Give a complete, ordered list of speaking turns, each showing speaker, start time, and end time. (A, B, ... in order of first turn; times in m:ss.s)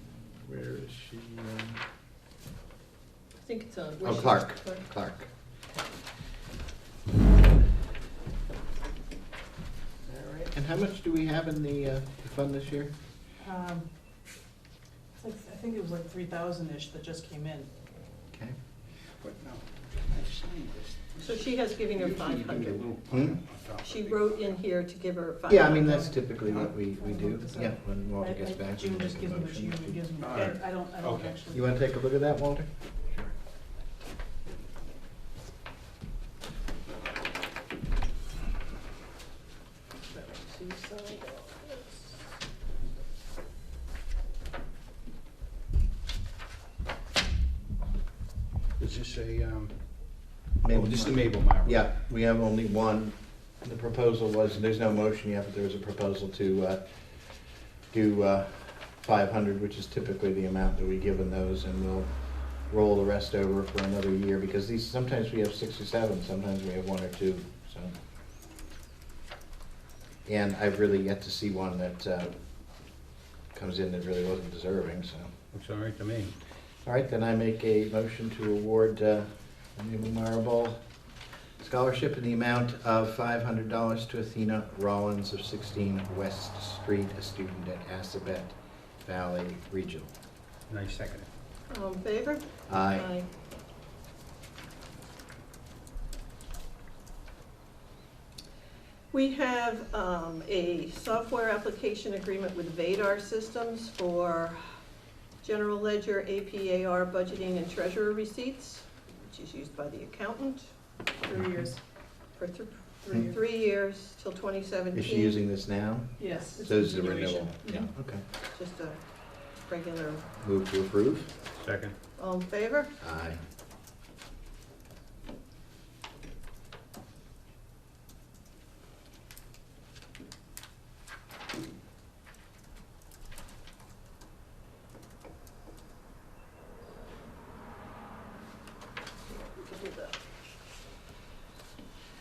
0:00.4-0:01.8 A
0:03.4-0:04.8 B
0:04.0-0:05.3 A
0:10.5-0:12.9 A
0:13.4-0:13.9 C
0:15.2-0:17.7 C
0:19.2-0:21.4 D
0:21.2-0:22.8 B
0:21.9-0:24.2 D
0:23.1-0:23.4 A
0:23.8-0:26.0 B
0:25.5-0:30.0 A
0:25.8-0:31.7 C
0:30.3-0:31.4 D
0:31.5-0:32.7 A
0:40.1-0:42.1 B
0:48.8-0:49.8 D
0:50.6-0:56.8 A
0:50.7-0:51.8 D
0:57.9-1:02.1 A
1:02.7-1:07.9 A
1:10.3-1:12.3 A
1:13.5-1:15.3 A
1:15.5-1:16.4 D
1:16.8-1:20.8 A
1:21.6-1:30.1 A
1:30.7-1:31.3 D
1:31.7-1:33.3 B
1:32.7-1:33.1 A
1:39.1-1:44.6 B
1:45.4-1:50.7 B
1:51.2-1:51.8 C
1:52.4-1:55.4 B
1:54.9-1:58.2 A
1:56.2-1:57.9 C
1:58.5-1:59.0 B
1:59.6-2:00.3 B
2:00.4-2:01.3 A
2:01.6-2:02.0 D
2:02.2-2:02.9 B
2:03.0-2:03.4 A
2:19.3-2:20.3 B